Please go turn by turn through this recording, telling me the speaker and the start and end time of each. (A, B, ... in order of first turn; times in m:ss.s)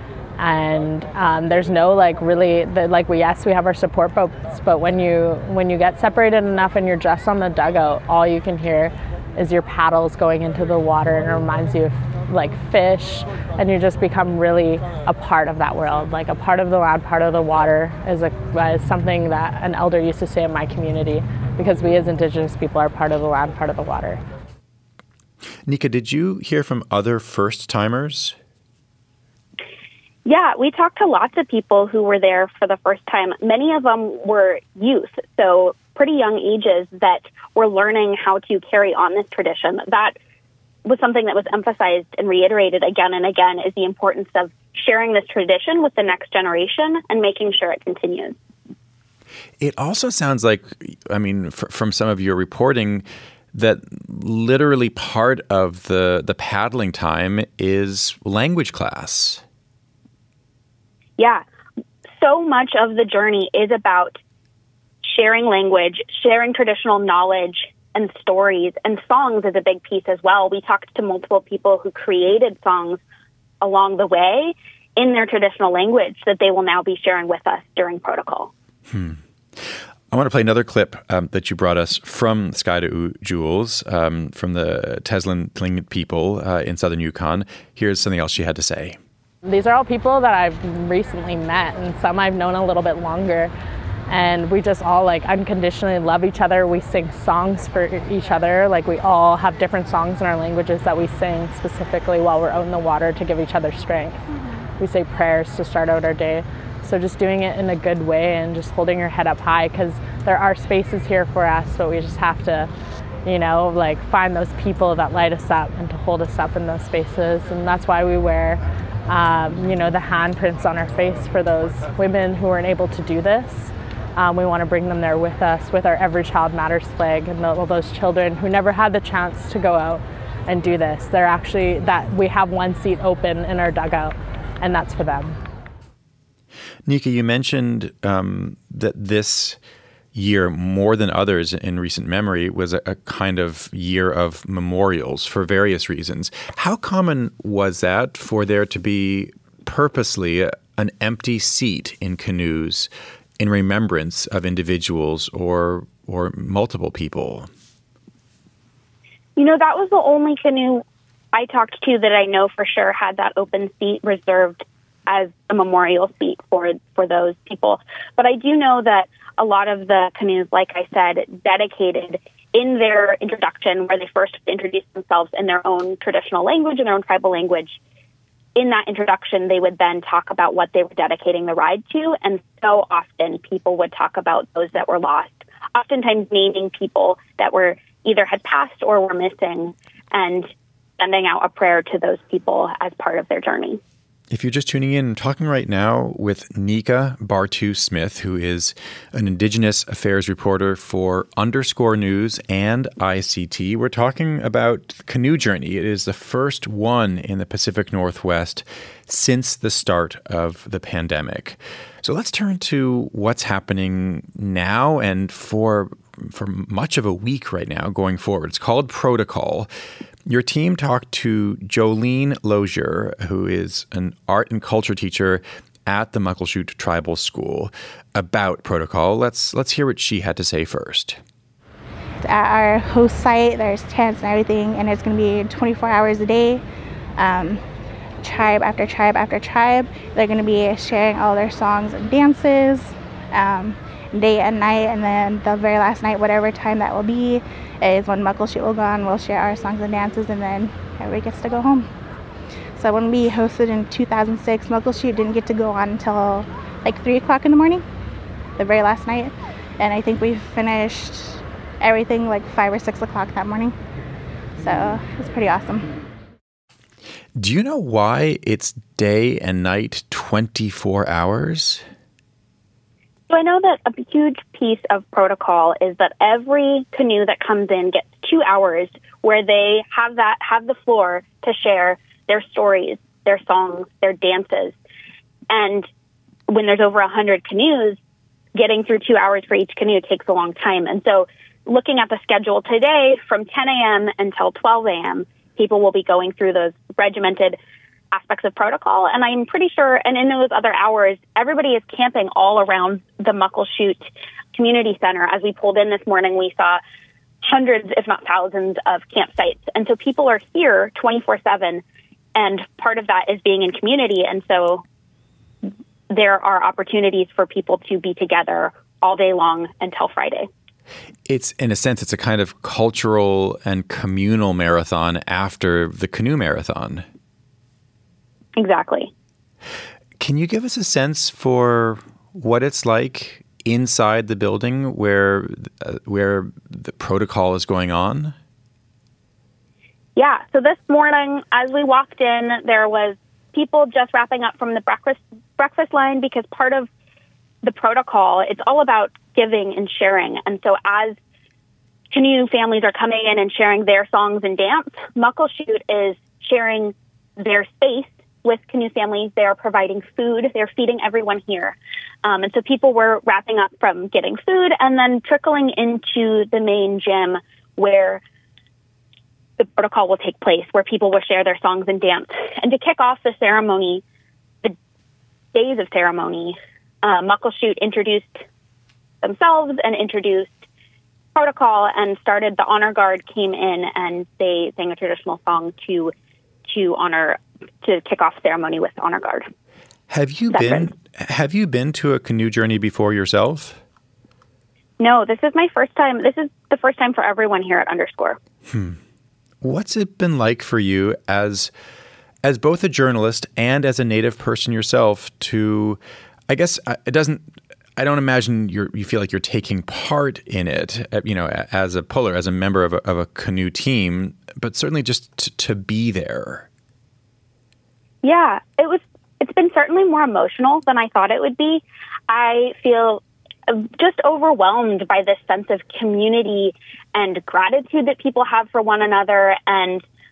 0:00.4-0:24.2 A
0:25.7-0:28.4 B
0:30.2-0:40.2 C
0:40.8-0:48.4 C
0:49.6-0:59.4 B
1:01.2-1:01.4 C
1:02.2-1:04.2 C
1:05.0-1:13.0 C
1:13.6-1:18.5 C
1:18.9-1:19.2 B
1:20.1-1:29.0 B
1:29.4-1:33.5 A
1:34.1-1:44.2 A
1:44.8-1:52.7 A
1:53.2-2:15.4 A
2:16.9-2:19.6 B
2:20.1-2:37.5 B
2:39.4-2:57.8 C
2:58.6-3:10.5 C
3:11.0-3:13.8 C
3:14.3-3:39.7 B
3:40.3-3:51.2 B
3:52.2-3:56.6 D
3:57.2-3:57.6 D
3:58.2-4:11.9 D
4:12.8-4:17.8 D
4:18.6-4:23.7 D
4:24.6-4:25.9 D
4:27.4-4:31.8 B
4:33.3-4:44.8 C
4:45.5-4:45.9 C
4:46.5-4:48.0 C
4:48.6-4:57.6 C
4:58.1-5:06.8 C
5:07.4-5:11.8 C
5:12.4-5:14.8 C
5:16.1-5:20.5 C
5:21.3-5:27.0 B
5:28.6-5:29.1 C
5:30.2-5:38.4 B
5:40.2-5:46.9 C
5:47.6-5:51.2 C
5:52.1-6:08.2 C
6:09.6-6:14.0 C
6:15.5-6:18.4 C
6:19.2-6:20.6 C
6:21.4-6:26.1 C
6:26.7-6:29.5 C
6:30.1-6:33.8 B
6:30.5-6:30.9 C
6:35.0-6:38.4 C
6:38.7-6:39.0 B
6:39.6-6:41.7 B
6:42.4-6:47.4 B
6:48.0-6:56.7 B
6:58.2-7:10.0 C